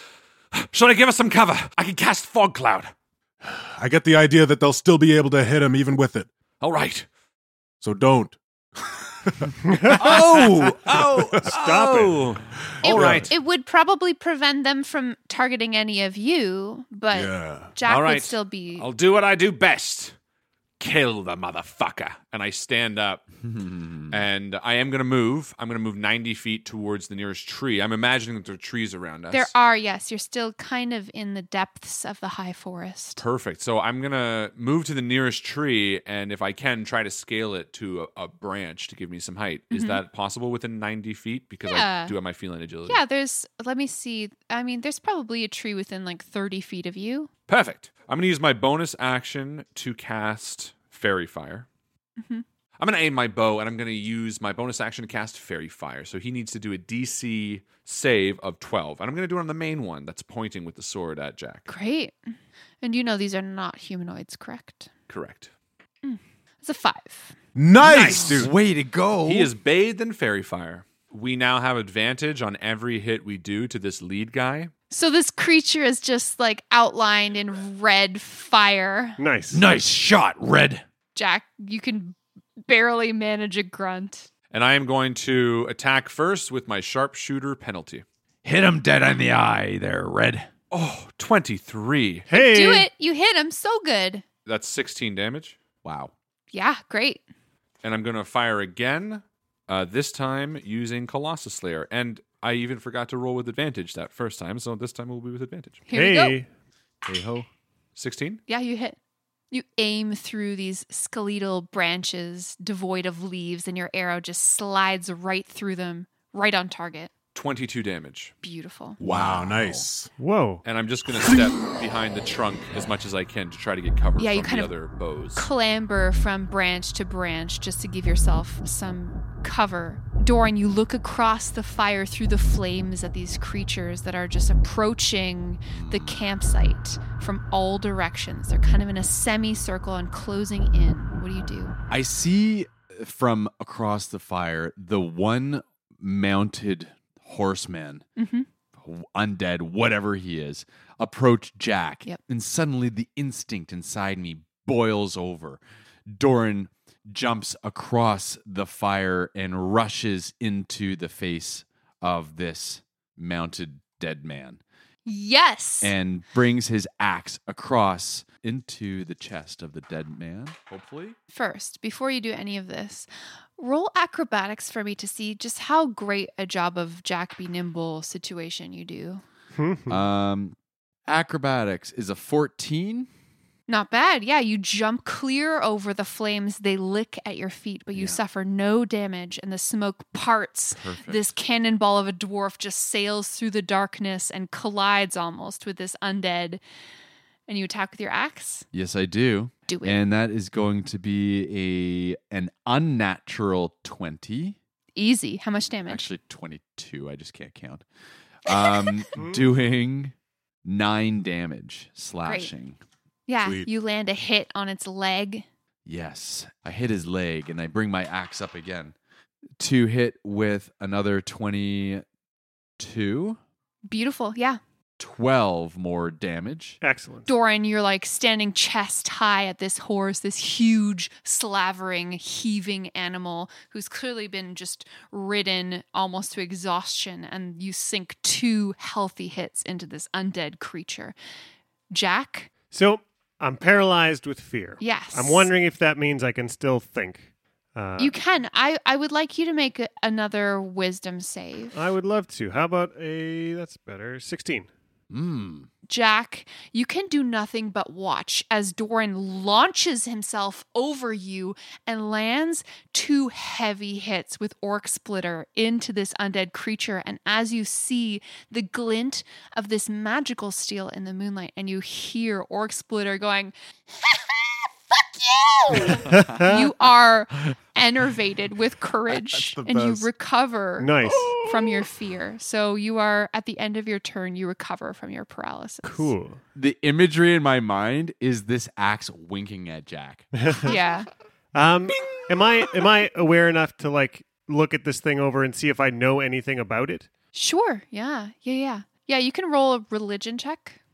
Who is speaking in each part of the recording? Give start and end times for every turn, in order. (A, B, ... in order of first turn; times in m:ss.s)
0:00.5-0:02.9 A
0:03.4-0:06.3 B
0:06.6-0:07.0 A
0:07.8-0:11.5 B
0:09.6-0:10.2 C
0:10.0-0:13.3 A
0:11.4-0:12.3 C
0:12.8-0:13.3 B
0:12.8-0:18.9 D
0:17.1-0:17.7 B
0:17.8-0:20.1 A
0:20.8-0:23.2 A
0:23.4-0:24.2 E
0:24.1-0:29.5 A
0:29.3-0:33.2 D
0:33.2-0:43.0 A
0:39.7-0:40.0 D
0:41.6-0:42.1 D
0:42.8-0:47.3 D
0:47.5-0:51.7 A
0:52.2-0:52.4 D
0:52.8-1:01.7 A
1:01.7-1:02.2 D
1:02.8-1:04.9 D
1:05.1-1:05.5 A
1:06.0-1:07.3 D
1:07.6-1:08.5 B
1:07.8-1:09.5 E
1:07.9-1:08.4 A
1:09.2-1:14.7 A
1:14.9-1:19.2 D
1:19.2-1:19.6 C
1:19.5-1:20.8 E
1:21.1-1:24.3 D
1:24.5-1:28.0 A
1:28.4-1:30.5 E
1:30.7-1:32.2 A
1:32.3-1:32.9 C
1:32.3-1:34.2 D
1:34.4-1:35.6 A
1:35.8-1:36.1 E
1:36.5-1:37.2 D
1:37.8-1:45.8 A
1:45.9-1:46.4 D
1:45.9-1:46.5 C
1:47.0-1:47.5 E
1:48.0-1:48.4 A
1:48.5-1:49.0 D
1:49.5-1:57.1 D
1:57.3-1:58.3 A
1:58.4-1:59.0 D
1:59.0-2:00.1 B
1:59.0-1:59.9 E
2:00.2-2:00.6 C
2:00.6-2:05.5 A
2:04.2-2:04.7 D
2:05.3-2:21.7 D
2:15.7-2:16.2 E
2:21.9-2:28.0 E
2:28.2-2:28.5 D
2:28.8-2:44.6 E
2:45.0-2:45.9 D
2:45.8-2:51.2 E
2:51.3-2:59.2 D
2:59.5-3:00.0 C
2:59.9-3:00.5 E
3:01.1-3:03.1 E
3:03.7-3:16.6 D
3:10.8-3:11.3 E
3:17.5-3:18.6 D
3:18.7-3:24.6 E
3:19.7-3:20.0 D
3:25.0-3:26.1 D
3:25.9-3:27.8 E
3:28.4-3:30.1 E
3:29.1-3:29.5 C
3:30.6-3:32.8 E
3:32.2-3:32.5 D
3:33.3-3:35.4 D
3:35.8-3:38.9 E
3:39.6-3:42.0 E
3:42.8-3:43.4 E
3:43.8-3:44.6 D
3:45.0-3:46.8 E
3:46.8-3:47.3 C
3:47.3-4:01.1 D
4:01.9-4:02.5 D
4:02.7-4:08.2 C
4:04.8-4:05.5 D
4:08.0-4:11.9 D
4:11.7-4:14.7 C
4:15.1-4:15.7 E
4:15.9-4:33.5 D
4:35.7-4:46.1 D
4:36.1-4:36.6 C
4:39.1-4:40.1 B
4:40.8-4:41.4 C
4:45.8-4:46.4 C
4:46.5-4:50.2 E
4:50.3-4:50.8 C
4:50.6-4:51.1 D
4:51.5-4:57.1 C
4:57.3-5:00.8 D